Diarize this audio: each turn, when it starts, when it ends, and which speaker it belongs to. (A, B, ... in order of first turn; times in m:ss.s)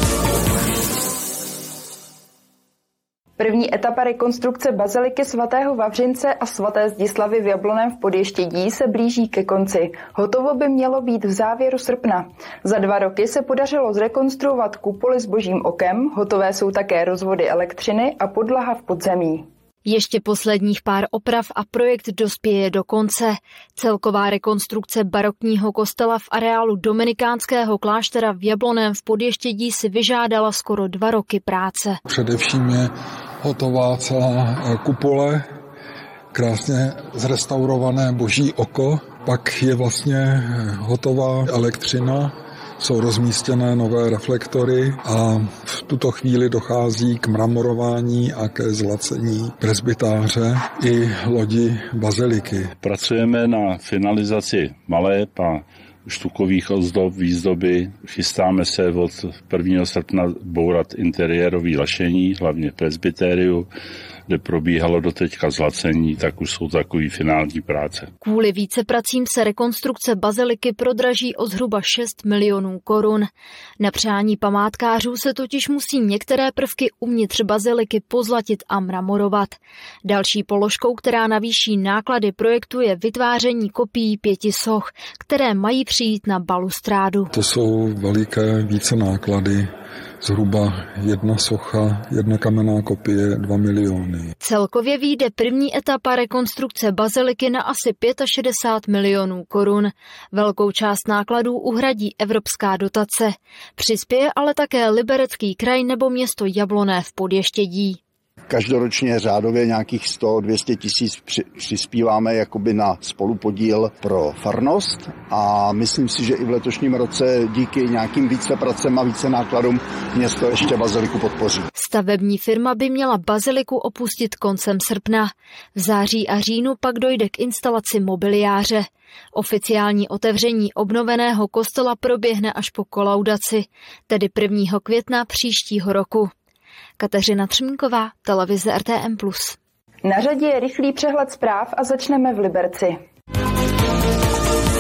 0:03.4-0:19.4 A
0:19.8-0:32.0 B
0:32.1-0:32.9 C
0:33.4-0:35.4 C
0:36.3-0:52.7 C
0:52.8-1:03.7 D
1:04.3-1:08.1 D
1:08.2-1:13.3 B
1:13.8-1:27.3 B
1:27.3-1:29.6 C
1:30.2-1:34.3 C
1:34.4-1:48.0 B
1:48.5-2:01.7 E
2:01.8-2:16.3 B
2:17.0-2:19.6 B
2:20.0-2:23.0 A